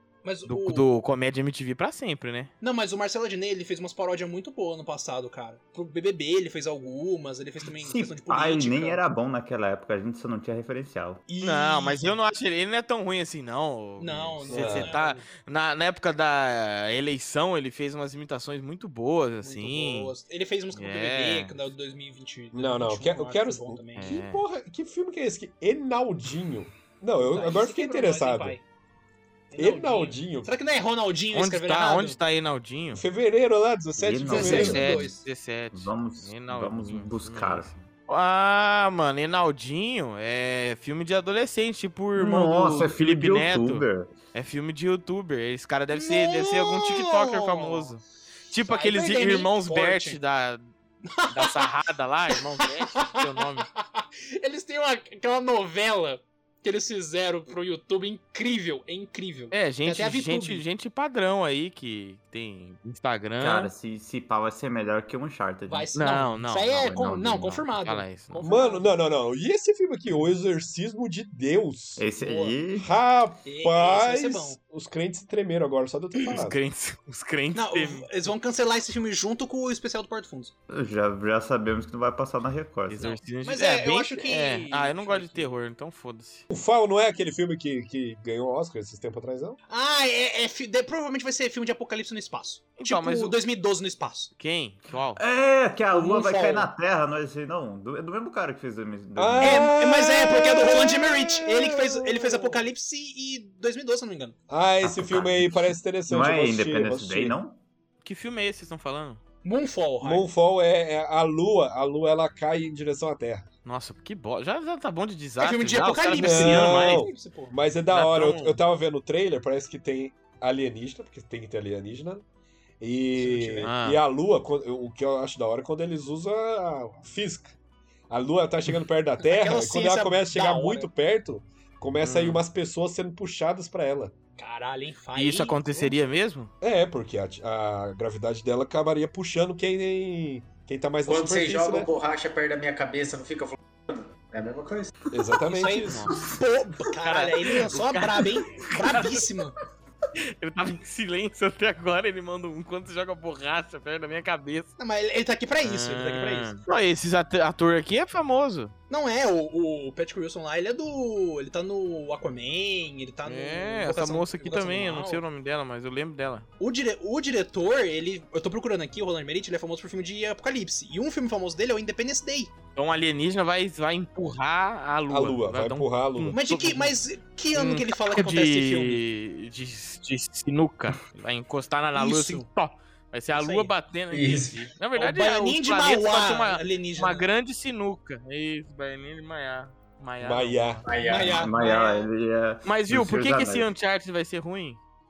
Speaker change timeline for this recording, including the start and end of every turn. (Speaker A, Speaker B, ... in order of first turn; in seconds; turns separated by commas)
Speaker A: 0.2-0.9, Speaker B: 0.5-2.5, Speaker A: 2.6-9.0, Speaker C: 7.8-11.2, Speaker A: 11.3-12.1, Speaker B: 11.4-20.1, Speaker A: 14.0-15.2, Speaker D: 14.5-14.9, Speaker A: 19.4-24.2, Speaker B: 20.8-21.7, Speaker D: 22.5-28.6, Speaker B: 24.0-24.4, Speaker A: 27.2-28.6, Speaker A: 29.5-32.2, Speaker D: 29.6-30.5, Speaker B: 31.3-33.0, Speaker D: 32.9-35.0, Speaker C: 34.0-35.1, Speaker A: 34.3-35.2, Speaker B: 34.4-50.7, Speaker C: 35.7-37.8, Speaker C: 42.1-44.1, Speaker A: 45.9-47.9, Speaker A: 48.7-50.2, Speaker A: 51.1-51.7, Speaker B: 51.2-53.7, Speaker A: 52.3-60.6, Speaker B: 59.5-63.7, Speaker C: 63.4-65.9, Speaker A: 65.7-69.0, Speaker B: 66.0-66.8, Speaker C: 66.7-67.7, Speaker B: 67.8-68.5, Speaker D: 68.4-72.1, Speaker C: 72.0-72.9, Speaker A: 72.2-72.6, Speaker D: 72.8-76.6, Speaker A: 73.5-74.6, Speaker B: 76.3-78.1, Speaker A: 77.5-80.5, Speaker C: 80.7-83.2, Speaker B: 82.9-86.5, Speaker A: 83.4-85.5, Speaker D: 86.5-89.6, Speaker A: 89.7-94.3, Speaker B: 92.8-93.3, Speaker B: 94.4-95.2, Speaker C: 95.2-99.7, Speaker A: 95.9-96.7, Speaker D: 99.2-102.6, Speaker A: 99.4-104.4, Speaker D: 104.5-107.4, Speaker C: 104.8-107.6, Speaker B: 108.0-109.2, Speaker A: 109.4-110.3, Speaker D: 110.0-113.5, Speaker B: 113.7-117.1, Speaker A: 115.4-117.6, Speaker D: 116.2-122.2, Speaker B: 117.9-118.6, Speaker D: 122.8-127.6, Speaker A: 123.2-123.7, Speaker B: 123.6-124.0, Speaker D: 128.1-134.1, Speaker A: 129.2-130.9, Speaker B: 132.0-132.4, Speaker A: 134.4-136.0, Speaker B: 135.2-136.5, Speaker D: 136.6-141.9, Speaker E: 141.1-144.9, Speaker D: 145.1-146.1, Speaker A: 145.5-149.6, Speaker B: 145.8-146.2, Speaker B: 147.0-149.2, Speaker B: 150.4-154.7, Speaker A: 154.8-156.5, Speaker B: 155.6-158.7, Speaker A: 158.9-165.2, Speaker B: 163.2-166.5, Speaker A: 166.6-172.5, Speaker B: 172.8-177.0, Speaker D: 175.1-176.4, Speaker A: 176.3-179.0, Speaker B: 177.5-190.9, Speaker A: 181.9-182.5, Speaker A: 183.3-183.7, Speaker E: 184.1-184.7, Speaker A: 185.0-187.3, Speaker D: 190.2-190.8, Speaker E: 190.8-191.6, Speaker A: 191.1-192.1, Speaker C: 191.3-193.7, Speaker B: 192.6-194.8